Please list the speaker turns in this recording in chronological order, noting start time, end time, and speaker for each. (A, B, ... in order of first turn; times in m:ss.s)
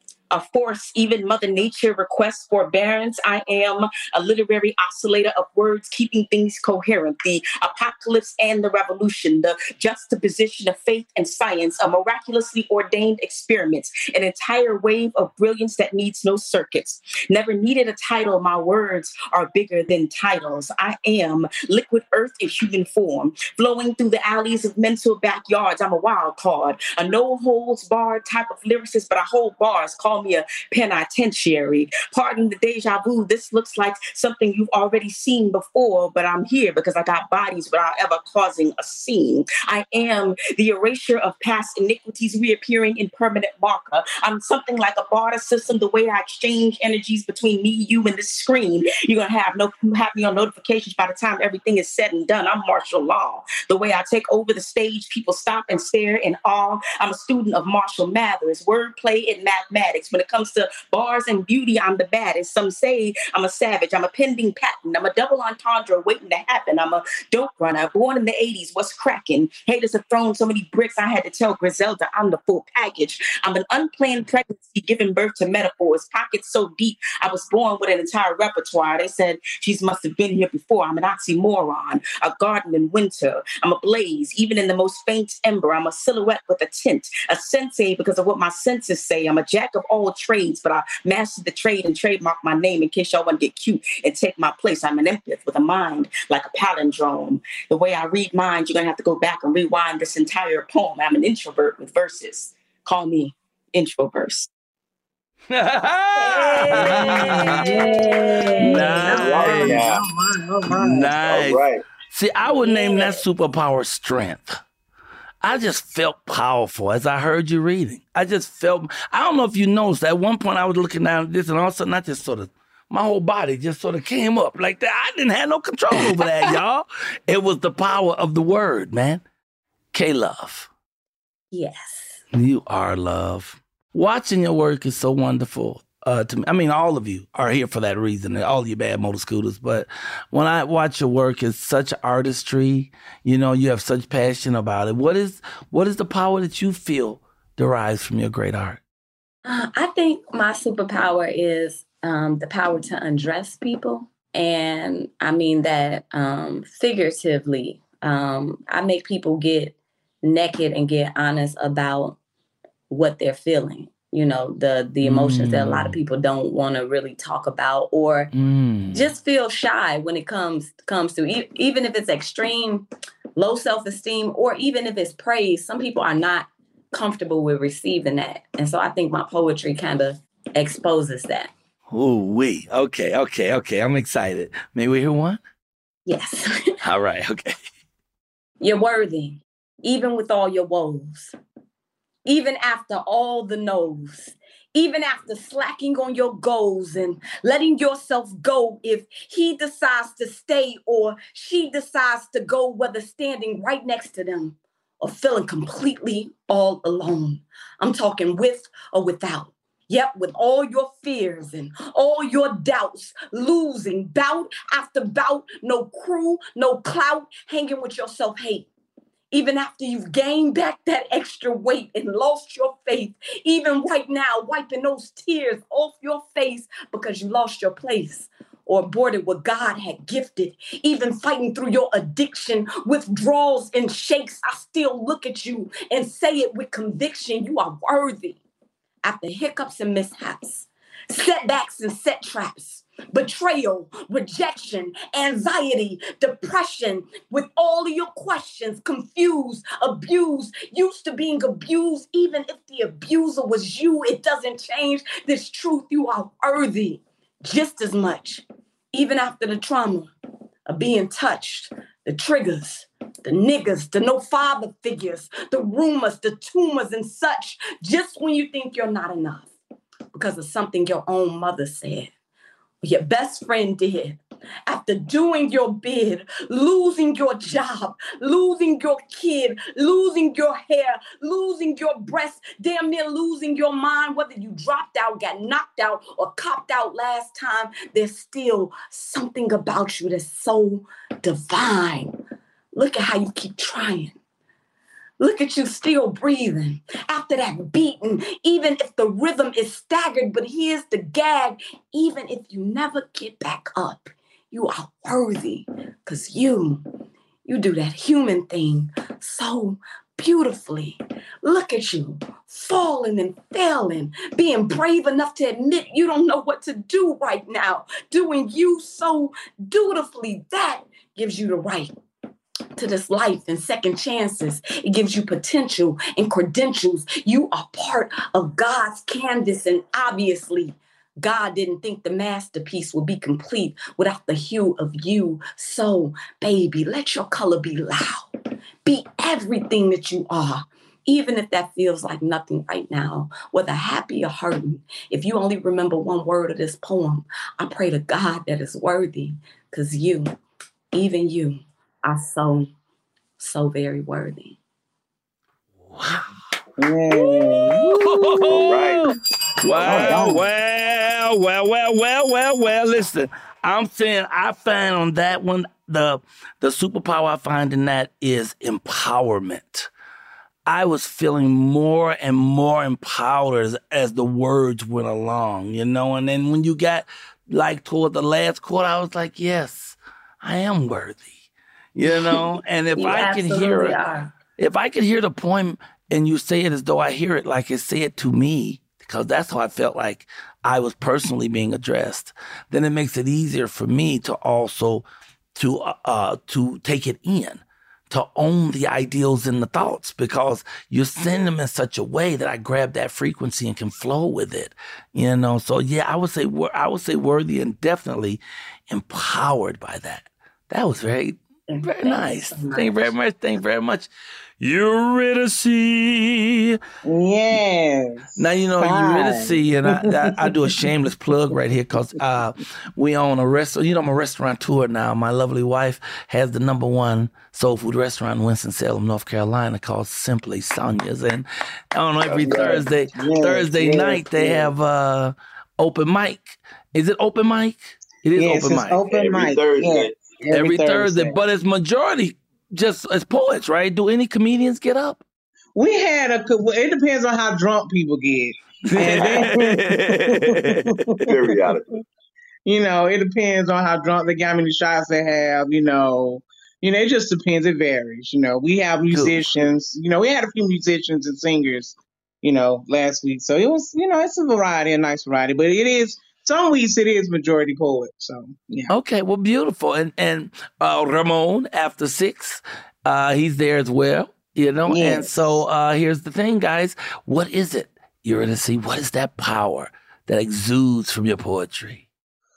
0:00.3-1:44.5 A
1:45.5-1:47.7 B
1:46.2-1:49.4 C
1:46.9-1:51.1 D
1:48.6-1:49.8 B
1:49.1-1:50.0 E
1:50.7-1:54.6 B
1:51.2-1:51.8 E
1:52.4-1:53.2 C
1:55.4-2:09.2 B
2:09.9-2:10.7 B
2:11.5-2:12.2 C
2:12.3-2:28.8 B
2:29.4-2:42.2 C
2:42.9-2:48.3 C
2:45.0-2:46.0 B
2:48.3-2:49.1 B
2:48.9-2:52.8 C
2:53.4-3:01.5 C
3:01.9-3:05.4 B
3:06.0-3:06.5 C
3:06.8-3:07.5 B
3:08.6-3:11.3 C
3:12.2-3:38.7 C
3:39.3-3:58.4 C
3:59.0-4:20.1 C
4:20.7-4:29.5 C
4:30.1-4:32.1 C
4:32.8-4:52.1 C
4:52.7-4:54.2 C
4:55.2-5:06.8 C
5:07.4-5:21.9 C
5:22.8-5:38.3 C
5:38.8-5:50.3 C
5:50.9-5:52.7 C
5:53.4-5:54.6 C
5:55.9-5:56.3 B
5:56.8-5:58.9 D
5:57.1-5:59.1 B
5:58.6-5:59.0 E
5:59.6-6:09.9 B
5:59.7-6:00.4 E
5:59.7-6:00.4 D
6:10.7-6:21.3 B
6:21.9-6:24.0 B
6:23.0-6:24.3 C
6:24.6-6:35.0 B
6:35.6-6:56.8 B
6:51.7-6:53.1 C
6:57.0-7:00.8 D
6:58.4-7:19.0 B
7:12.2-7:12.8 E
7:12.4-7:14.7 D
7:18.4-7:21.4 D
7:19.1-7:20.3 E
7:20.5-7:25.2 B
7:25.7-7:31.4 D
7:28.9-7:31.2 B
7:31.3-7:31.8 E
7:32.6-7:48.9 D
7:39.1-7:39.5 B
7:48.9-8:02.0 B
7:54.8-7:55.6 D